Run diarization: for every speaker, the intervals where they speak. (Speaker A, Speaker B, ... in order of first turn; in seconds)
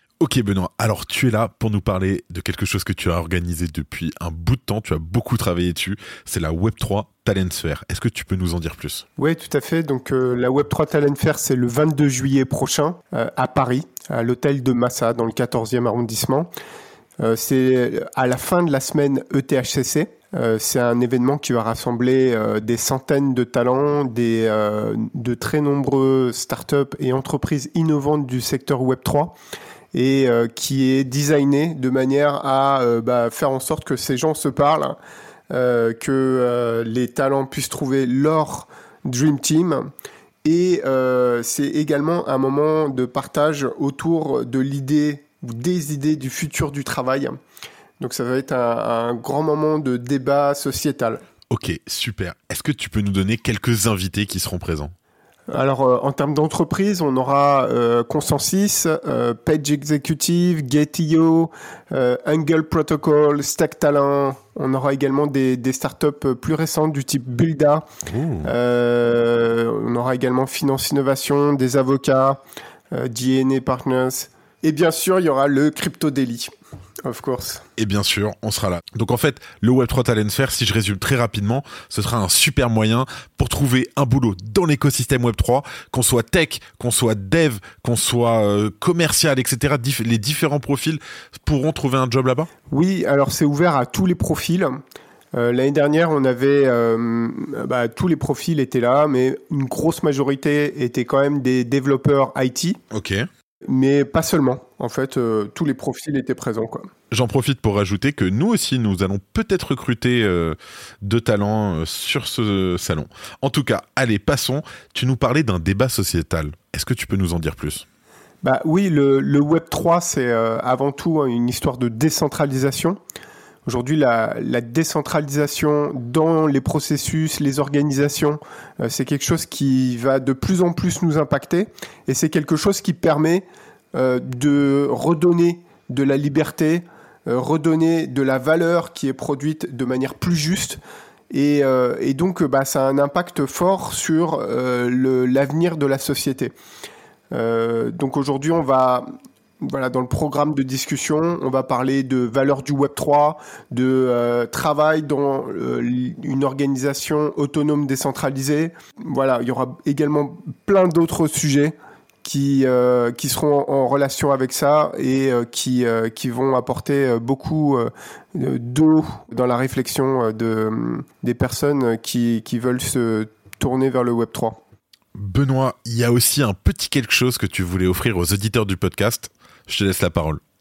Speaker A: 0.2-9.0, 51.5-54.9, 68.0-68.5, 77.8-92.5, 102.9-103.2, 107.1-117.8, 175.1-180.4
Speaker B: 9.2-16.5, 17.2-29.4, 29.9-35.0, 35.5-39.9, 40.4-47.4, 48.0-51.2, 55.5-67.9, 68.4-72.4, 72.9-76.5, 77.0-77.6, 92.7-94.8, 95.3-102.8, 103.7-106.9, 118.4-123.0, 123.7-140.8, 141.3-146.5, 147.3-149.1, 149.6-174.6